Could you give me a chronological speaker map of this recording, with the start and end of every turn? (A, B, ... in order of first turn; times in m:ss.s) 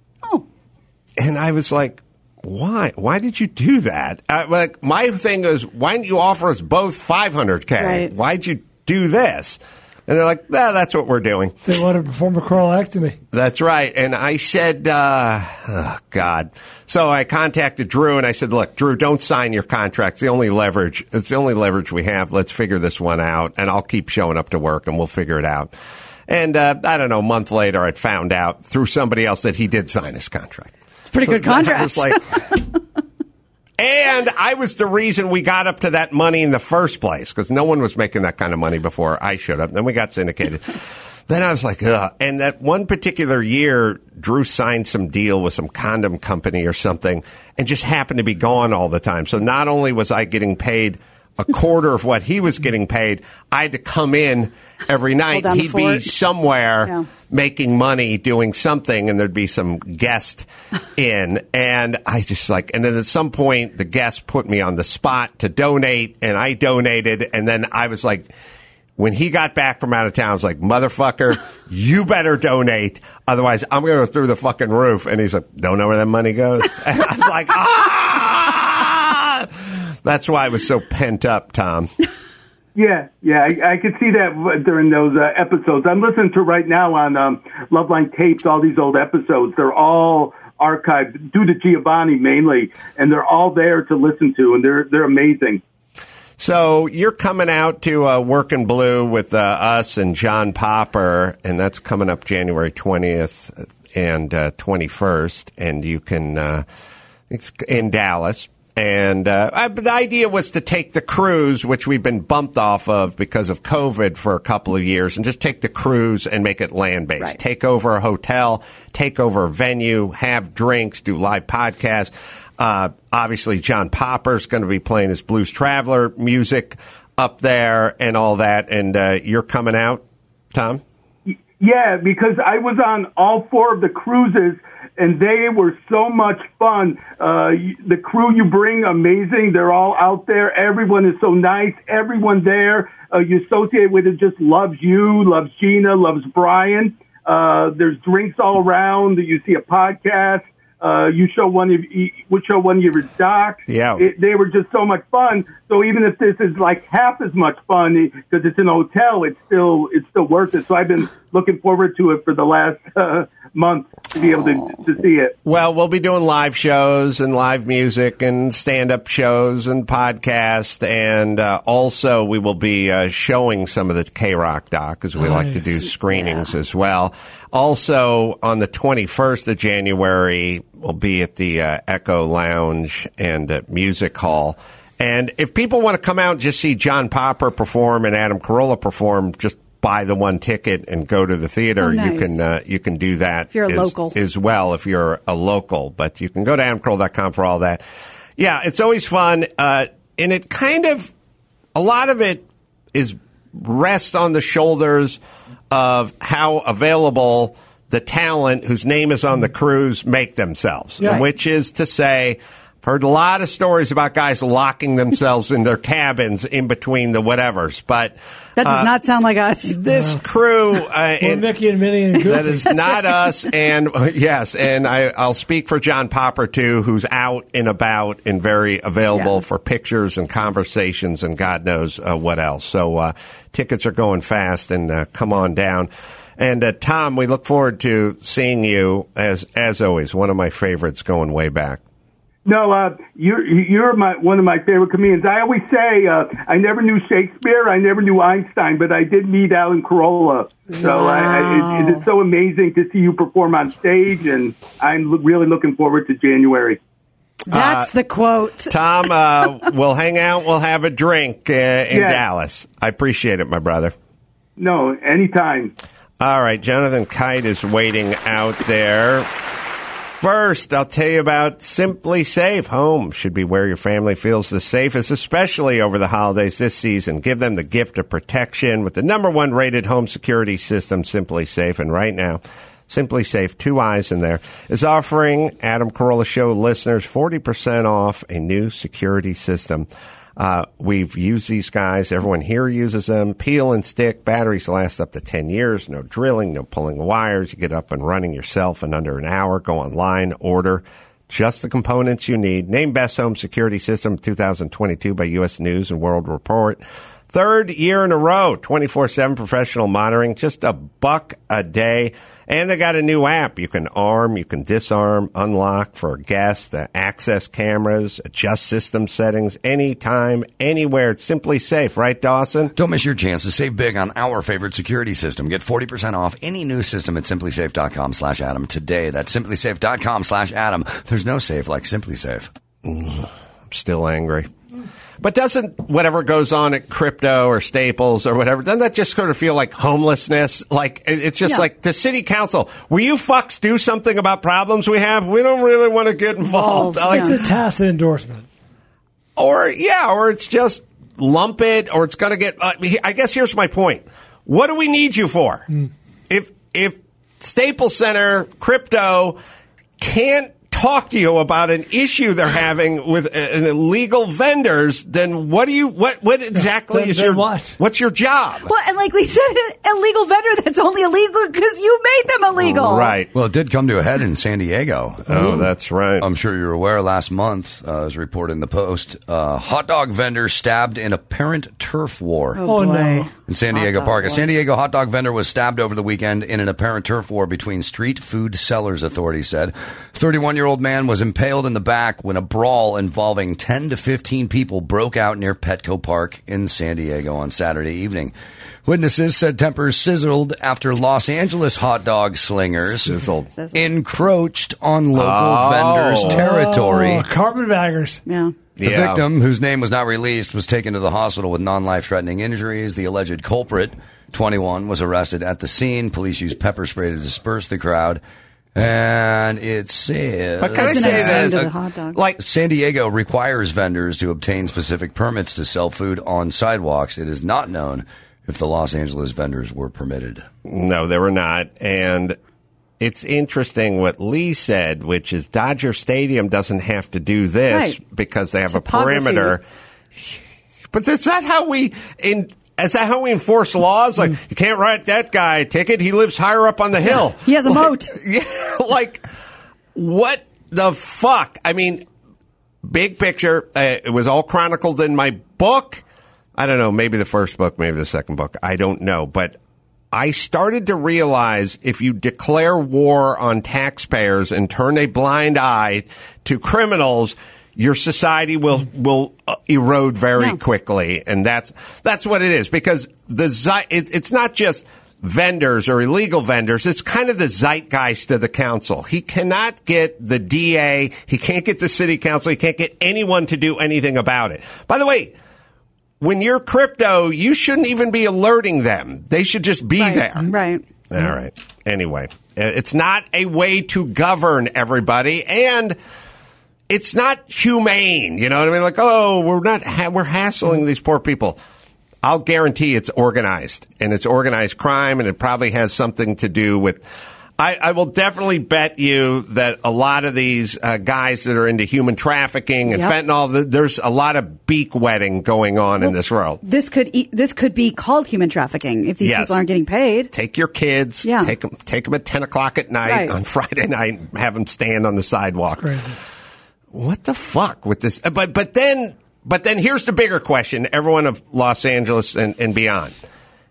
0:01.2-0:11.6 A
0:07.8-0:08.1 B
0:11.6-0:13.2 C
0:13.3-0:25.7 A
0:26.3-0:32.4 A
0:31.0-0:32.4 B
0:33.8-0:40.7 A
0:41.3-1:08.3 A
0:55.3-0:56.1 B
1:09.0-1:19.5 A
1:20.0-1:21.9 A
1:22.7-1:35.6 D
1:36.4-1:46.6 A
1:47.3-2:10.8 A
2:11.3-2:45.3 D
2:33.7-2:34.0 A
2:45.4-3:17.8 A
2:55.2-2:55.6 C
2:56.1-2:56.4 B
3:11.8-3:12.4 B
3:13.5-3:14.2 B
3:18.4-3:21.1 A
3:21.7-3:25.2 A
3:25.7-3:38.9 A
3:38.6-3:39.8 B
3:39.6-3:41.5 A
3:39.9-3:40.2 C
3:41.2-3:42.7 C
3:42.2-4:01.8 A
4:02.4-4:16.8 D
4:10.7-4:12.0 B
4:17.5-4:18.7 B
4:17.5-4:17.9 A
4:18.7-4:23.9 A
4:21.9-4:22.2 D
4:24.6-4:25.7 D
4:26.2-4:29.3 A
4:30.2-5:06.8 A
5:07.3-5:22.7 A
5:22.7-5:32.5 E
5:32.8-5:34.5 A
5:35.2-5:47.4 A
5:46.5-5:47.4 B
5:47.0-5:48.4 C
5:49.4-5:55.7 A
5:56.3-5:59.4 A
6:00.0-6:08.7 A
6:06.5-6:07.8 C
6:08.6-6:13.2 B
6:12.6-6:13.3 A
6:13.3-6:22.6 E
6:15.3-6:16.2 A
6:22.6-6:24.5 B
6:22.6-6:23.3 C
6:23.4-6:38.3 E
6:38.8-6:43.2 E
6:43.0-6:43.5 A
6:43.6-6:43.8 B
6:43.7-6:47.3 E
6:45.1-6:46.4 A
6:46.2-6:48.2 C
6:48.2-6:48.5 B
6:48.8-6:49.2 A
6:48.8-6:58.2 E
6:58.7-7:01.7 E
7:00.6-7:02.4 A
7:00.7-7:02.2 B
7:02.4-7:10.5 E
7:10.6-7:12.4 A
7:13.0-7:19.6 A
7:17.7-7:18.0 B
7:18.7-7:19.6 B
7:20.1-7:20.4 A
7:20.9-7:29.3 A
7:27.0-7:28.1 B
7:29.9-7:32.0 A
7:32.8-7:36.0 A
7:36.6-7:39.6 A
7:40.1-8:05.3 A
8:06.2-8:10.5 A
8:10.0-8:10.8 B
8:11.1-8:16.0 A
8:16.9-8:21.6 A
8:22.2-8:27.0 A
8:27.6-8:36.6 A
8:32.9-8:33.1 B
8:36.0-8:40.3 B
8:39.2-8:39.6 A
8:40.3-8:46.0 A
8:41.2-8:41.5 B
8:43.0-8:43.3 B
8:45.8-8:46.2 C
8:46.9-8:53.1 A